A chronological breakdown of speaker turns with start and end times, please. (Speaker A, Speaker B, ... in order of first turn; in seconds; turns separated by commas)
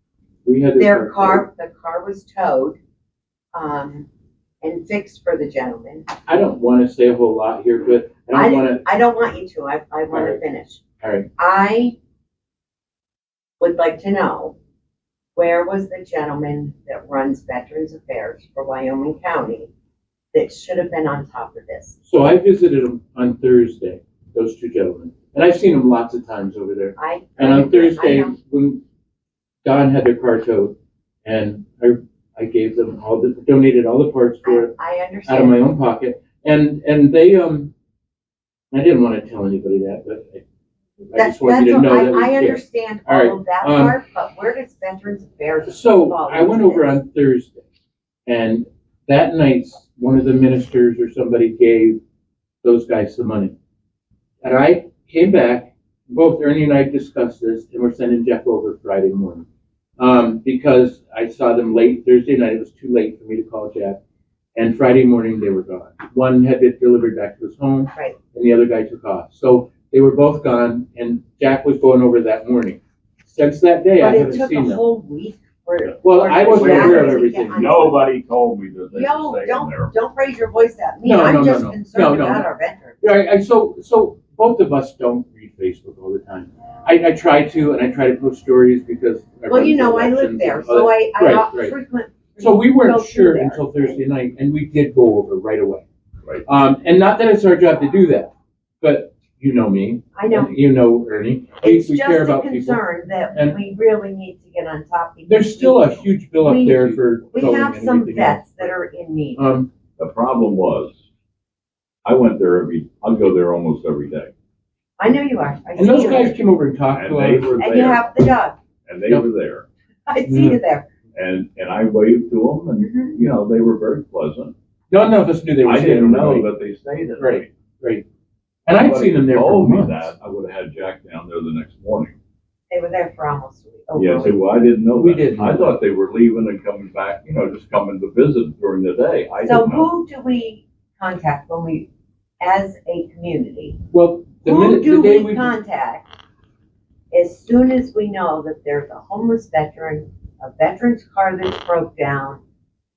Speaker A: 0.4-1.4, Speaker B: 0.8-2.8, Speaker B: 3.5-4.1, Speaker B: 4.6-6.1, Speaker A: 6.3-8.8, Speaker B: 8.3-10.8, Speaker A: 10.1-10.4, Speaker A: 11.0-11.3, Speaker B: 11.4-11.9, Speaker B: 13.6-14.6, Speaker B: 15.3-19.7, Speaker B: 20.3-22.0, Speaker A: 22.0-28.8, Speaker B: 27.0-28.4, Speaker A: 29.6-34.7, Speaker B: 34.4-35.6, Speaker A: 35.2-37.7, Speaker A: 38.7-40.4, Speaker A: 41.1-44.0, Speaker B: 41.1-47.0, Speaker A: 45.7-47.6, Speaker A: 48.3-52.0, Speaker A: 52.6-53.5, Speaker A: 54.4-59.5, Speaker A: 60.0-64.0, Speaker A: 64.5-74.8, Speaker B: 74.0-78.1, Speaker A: 76.0-77.7, Speaker C: 76.5-79.9, Speaker B: 78.9-83.1, Speaker A: 81.0-82.5, Speaker A: 83.0-91.8, Speaker B: 89.5-94.0, Speaker A: 92.4-95.8, Speaker A: 96.5-103.6, Speaker B: 100.2-100.5, Speaker B: 101.6-109.4, Speaker A: 105.3-108.7, Speaker A: 109.4-109.7, Speaker C: 110.0-111.0, Speaker C: 112.0-114.3, Speaker B: 115.0-116.4, Speaker A: 115.8-117.8, Speaker C: 116.9-118.1, Speaker B: 117.6-118.6, Speaker C: 118.9-119.7, Speaker B: 120.1-120.9, Speaker A: 120.3-120.6, Speaker C: 121.2-124.5, Speaker A: 124.9-126.5, Speaker C: 125.7-127.5, Speaker A: 127.2-128.1, Speaker A: 128.7-130.1, Speaker C: 128.7-132.2, Speaker B: 132.7-134.7, Speaker C: 134.0-139.9, Speaker A: 134.9-135.8, Speaker B: 139.4-141.9, Speaker B: 142.4-143.8, Speaker A: 143.9-145.6, Speaker B: 144.4-146.1, Speaker B: 147.1-152.4